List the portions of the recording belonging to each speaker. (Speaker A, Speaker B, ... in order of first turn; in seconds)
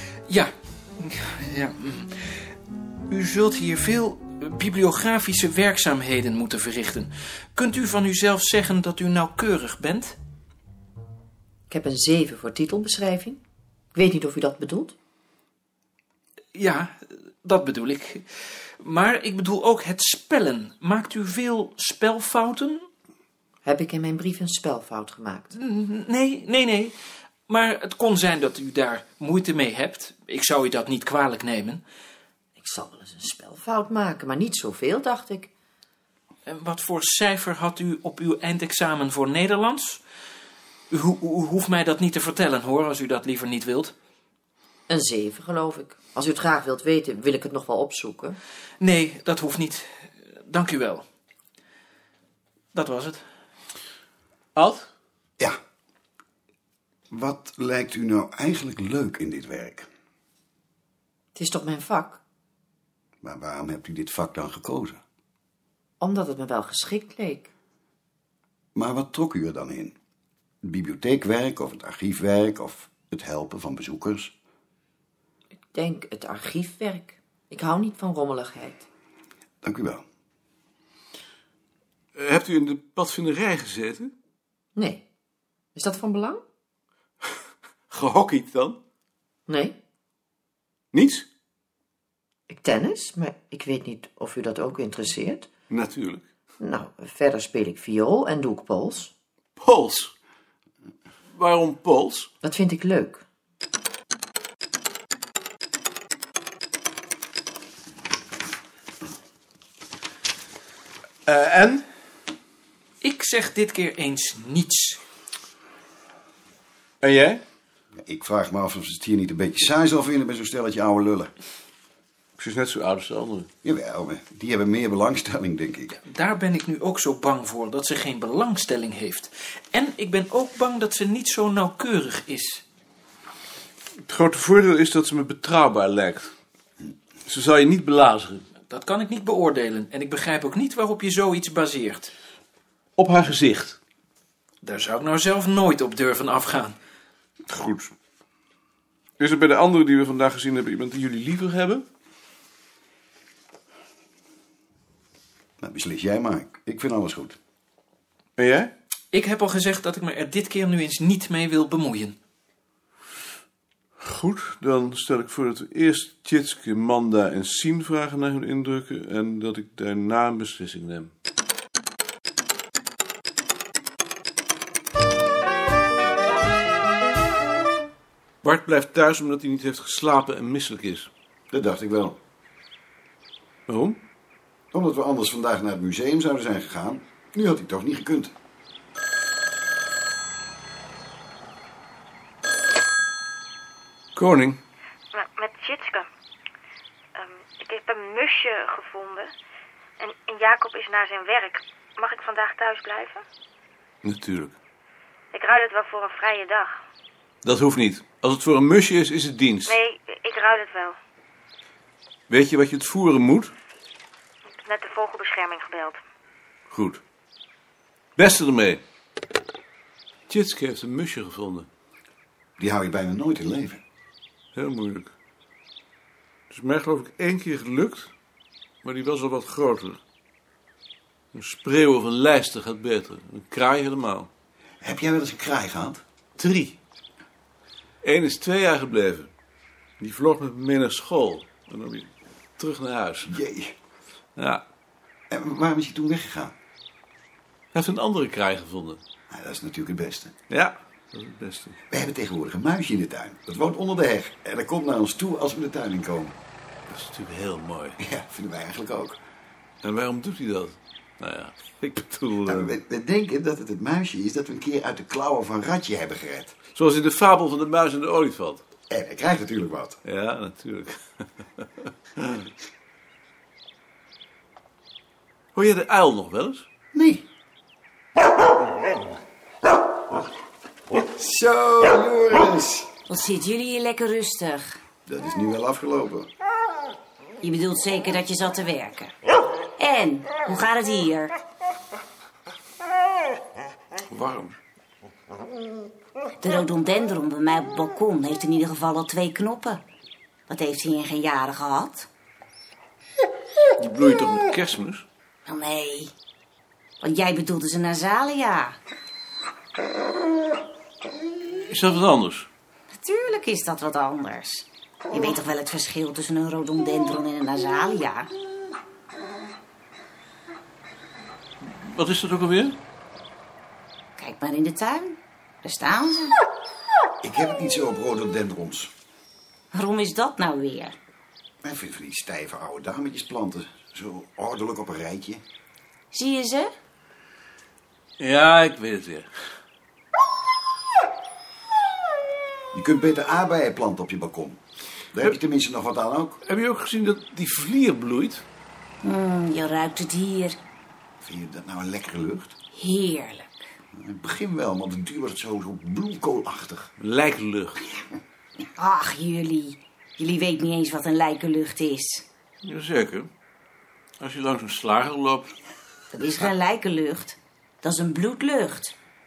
Speaker A: 0.3-2.2, 3.1-10.2, 16.5-18.2, 18.8-22.9, 25.5-26.9, 27.5-31.8, 36.5-40.0, 40.9-43.9, 48.8-51.0, 52.7-53.2, 113.0-115.0, 125.9-132.6, 138.7-142.1, 144.6-146.8, 159.1-162.2
Speaker B: 11.7-13.4, 13.9-14.9, 23.6-25.5, 32.6-35.5, 44.9-48.4, 61.3-62.2, 66.0-67.5, 75.7-78.8, 84.7-85.0, 85.7-86.4, 89.5-89.8, 92.5-95.5, 96.6-99.1, 102.4-103.2
Speaker C: 54.5-54.9, 82.2-84.1, 87.9-88.8, 90.9-91.3, 95.7-96.2, 99.6-100.1, 101.3-102.3, 111.2-111.8, 117.0-117.4, 122.4-123.5, 134.1-136.3, 137.2-138.5, 143.0-143.8, 147.5-147.9, 149.2-151.8, 158.4-158.7, 164.0-171.1, 178.4-181.1, 183.7-184.0, 194.2-194.6, 204.0-204.5, 207.4-209.8, 212.3-213.5, 216.7-217.0, 218.2-218.8, 220.3-221.7, 224.5-225.1, 226.5-228.1, 228.8-230.0, 231.3-234.3, 236.4-236.8, 238.0-239.3, 240.0-243.3, 244.4-244.6, 247.7-249.0, 250.5-251.8, 256.9-258.0, 259.8-262.7, 266.7-268.6, 270.0-271.9, 275.5-276.6, 294.1-294.6, 303.8-305.1, 311.6-312.5, 321.6-322.8, 338.2-339.3, 346.4-348.4, 357.0-357.8, 362.6-363.3, 364.2-365.5
Speaker D: 57.1-59.9, 63.2-65.0, 68.7-69.9, 70.6-74.3, 79.6-80.0, 118.0-121.3, 123.6-125.9, 155.6-157.4, 181.5-182.2, 184.7-188.3, 222.6-223.8, 234.8-236.0, 243.3-243.7, 245.3-246.5, 249.3-250.3, 251.9-256.4, 258.0-259.2, 262.4-266.5, 268.9-270.0, 276.9-277.2, 280.9-282.9, 285.1-286.3, 327.2-328.9, 331.6-335.4, 342.7-344.6, 345.1-346.4, 351.2-352.6, 353.9-356.9
Speaker E: 195.1-196.1, 197.1-199.3, 200.0-203.2, 205.3-206.8, 209.6-211.0, 214.6-216.0
Speaker F: 283.1-284.8, 287.4-289.1, 289.8-291.3, 296.4-299.8, 300.5-302.1, 305.4-306.1, 307.0-308.8, 312.9-318.3, 324.2-326.3, 329.7-330.9, 336.1-336.7, 349.0-350.6, 352.7-353.5, 358.8-362.2, 366.1-368.9